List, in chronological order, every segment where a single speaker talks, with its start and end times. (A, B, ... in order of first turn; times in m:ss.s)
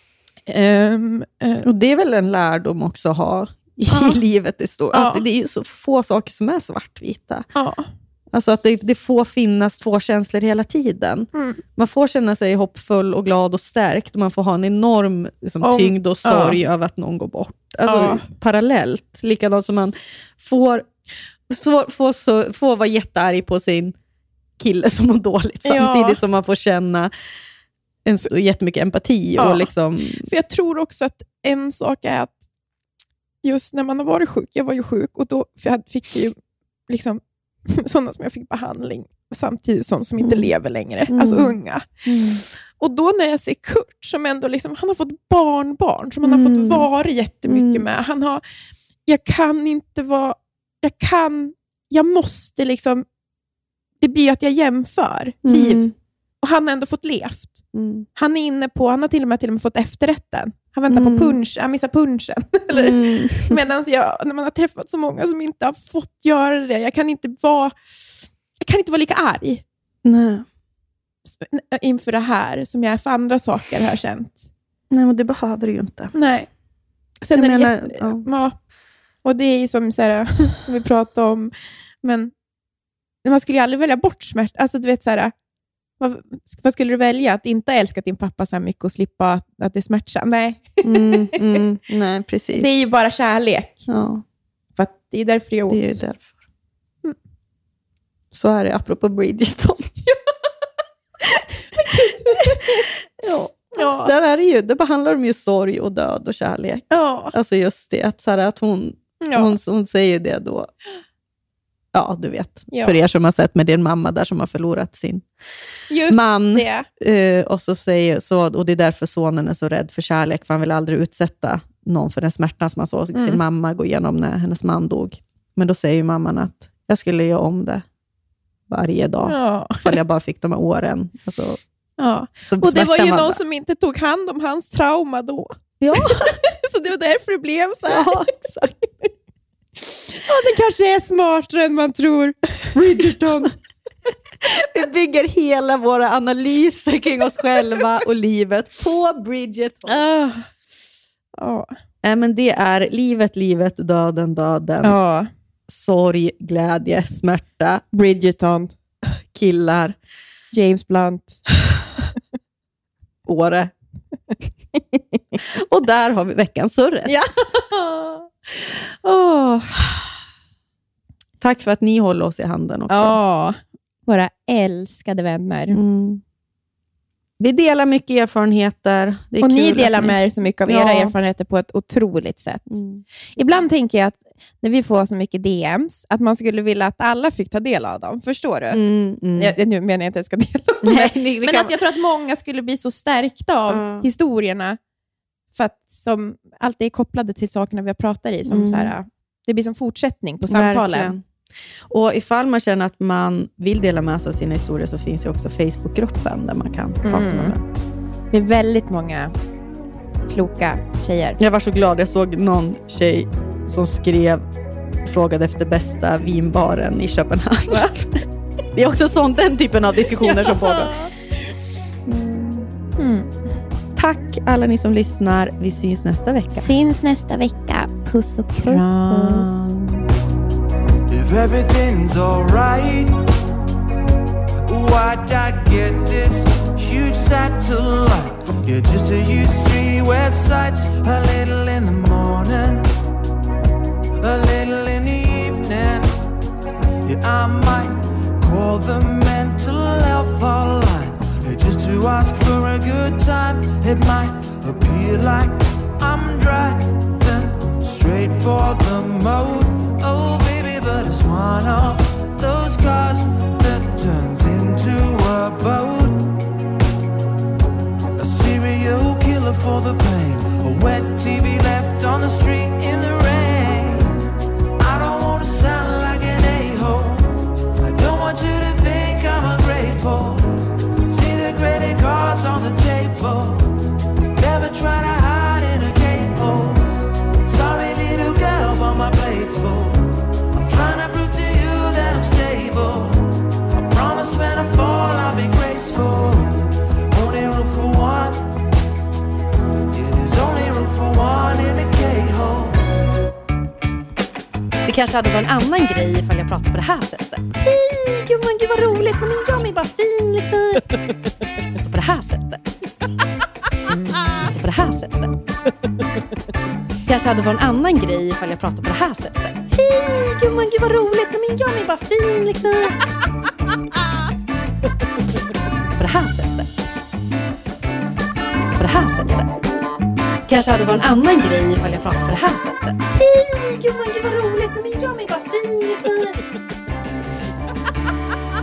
0:00.5-0:01.7 A
0:01.6-0:07.5 B
0:03.9-0:04.2 A
0:04.9-0:05.2 A
0:07.6-0:07.9 A
0:08.3-0:20.9 B
0:11.3-0:11.6 A
0:15.6-0:16.6 A
0:17.8-0:18.3 A
0:21.5-0:24.0 B
0:24.6-0:27.1 B
0:25.6-0:26.2 A
0:28.0-0:30.3 B
0:29.4-0:32.4 A
0:33.4-0:41.9 A
0:40.2-0:40.5 B
0:41.1-0:42.4 B
0:42.8-0:48.4 A
0:46.2-0:46.9 B
0:47.5-0:47.8 B
0:49.1-0:53.0 A
0:54.0-0:57.6 A
0:55.4-0:55.9 B
0:57.7-0:58.1 B
0:58.2-1:09.6 A
1:00.9-1:01.4 B
1:02.7-1:03.6 B
1:10.0-1:10.5 B
1:11.3-1:14.5 A
1:14.9-1:16.1 B
1:16.1-1:16.5 A
1:17.2-1:18.6 A
1:17.3-1:18.2 B
1:19.2-1:22.3 A
1:23.2-1:25.3 A
1:26.0-1:31.2 A
1:30.8-1:32.7 B
1:32.6-1:33.8 A
1:33.9-1:34.2 B
1:34.8-1:36.0 A
1:35.7-1:36.3 B
1:38.3-1:39.9 B
1:41.4-1:42.9 A
1:42.4-1:42.7 B
1:43.2-1:50.7 B
1:43.8-1:44.1 A
1:46.9-1:47.3 A
1:49.2-1:49.6 A
1:51.9-1:55.3 B
1:55.9-1:56.9 A
1:56.1-2:07.8 B
2:08.7-2:11.6 B
2:09.3-2:10.0 A
2:12.0-2:18.2 A
2:12.4-2:13.4 B
2:15.8-2:16.4 B
2:17.9-2:18.8 B
2:20.1-2:23.5 A
2:23.0-2:23.5 B
2:24.4-2:30.0 B
2:29.9-2:30.5 A
2:31.4-2:31.7 A
2:32.0-2:35.0 B
2:34.8-2:35.3 A
2:35.7-2:37.8 B
2:37.9-2:38.7 A
2:39.1-2:40.0 B
2:40.5-2:41.4 A
2:43.3-2:43.7 B
2:45.6-2:47.2 B
2:47.1-2:48.3 A
2:49.0-2:50.1 B
2:51.4-2:53.2 B
2:52.9-2:55.8 A
2:55.7-2:56.2 B
2:57.4-3:01.1 B
2:59.4-3:02.8 A
3:02.7-3:03.0 B
3:03.4-3:08.8 A
3:08.7-3:09.6 B
3:09.4-3:14.8 A
3:10.8-3:11.7 B
3:13.7-3:14.1 B
3:15.5-3:21.1 A
3:18.5-3:18.9 B
3:20.5-3:21.2 B
3:21.9-3:27.6 B
3:27.0-3:27.6 A
3:28.3-3:29.4 A
3:30.3-3:31.4 A
3:31.4-3:34.5 B
3:35.0-3:38.2 B
3:38.8-3:41.1 B
3:40.2-3:41.1 A
3:42.1-3:42.7 B
3:43.0-3:43.3 A
3:44.0-3:46.7 B
3:46.5-3:49.7 A
3:48.6-3:49.8 B
3:51.1-3:53.3 C
3:54.7-4:02.9 C
4:04.2-4:06.2 C
4:07.0-4:26.4 C
4:28.2-4:34.1 C
4:34.8-4:43.8 C
4:44.4-4:58.6 C
4:59.9-5:03.0 C
5:04.9-5:11.1 B
5:11.8-5:12.7 B
5:13.9-5:15.4 B
5:17.1-5:23.0 B
5:25.9-5:26.7 B
5:28.7-5:29.5 B
5:30.5-5:36.4 B